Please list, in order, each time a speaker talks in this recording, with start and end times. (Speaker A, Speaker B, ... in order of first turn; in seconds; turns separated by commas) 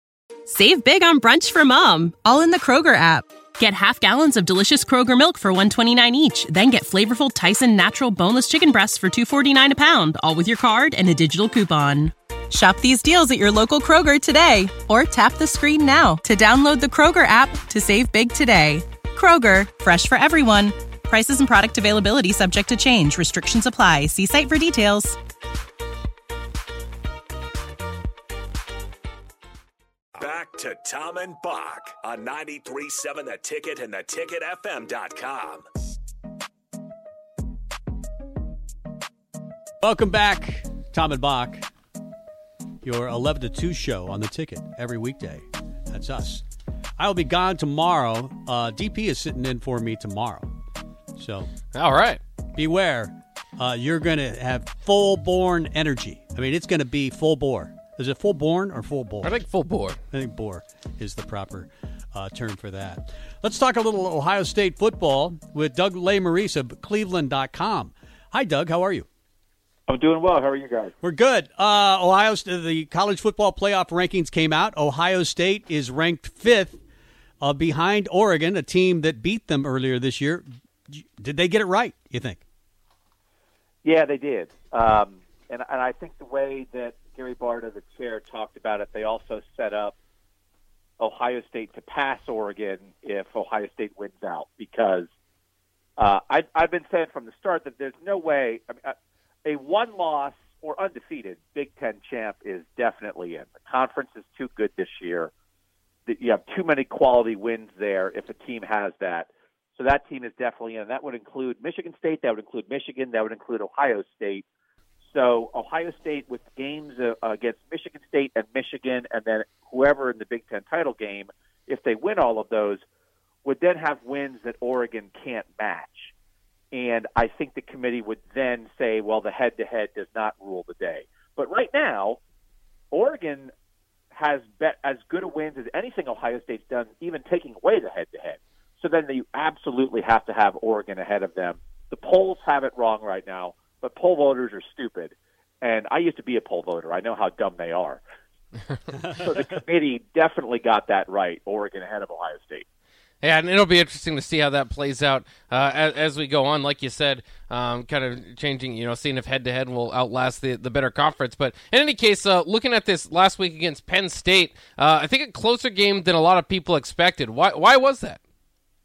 Speaker A: 0.5-25.2, Speaker B: 30.1-35.6, Speaker C: 39.8-41.7, Speaker C: 42.8-46.4, Speaker C: 47.0-50.5, Speaker C: 51.1-51.5, Speaker D: 51.7-52.2, Speaker C: 52.5-59.4, Speaker D: 59.2-59.9, Speaker C: 60.1-69.1, Speaker E: 69.9-70.9, Speaker C: 71.0-76.8, Speaker C: 77.4-82.4, Speaker E: 83.8-89.9, Speaker E: 91.0-95.1, Speaker E: 96.0-98.9, Speaker E: 99.5-105.3, Speaker E: 106.1-114.4, Speaker E: 115.0-122.8, Speaker E: 123.4-126.1, Speaker E: 126.7-132.2, Speaker E: 132.9-133.5, Speaker E: 134.1-148.0, Speaker E: 149.1-152.6, Speaker D: 153.2-168.2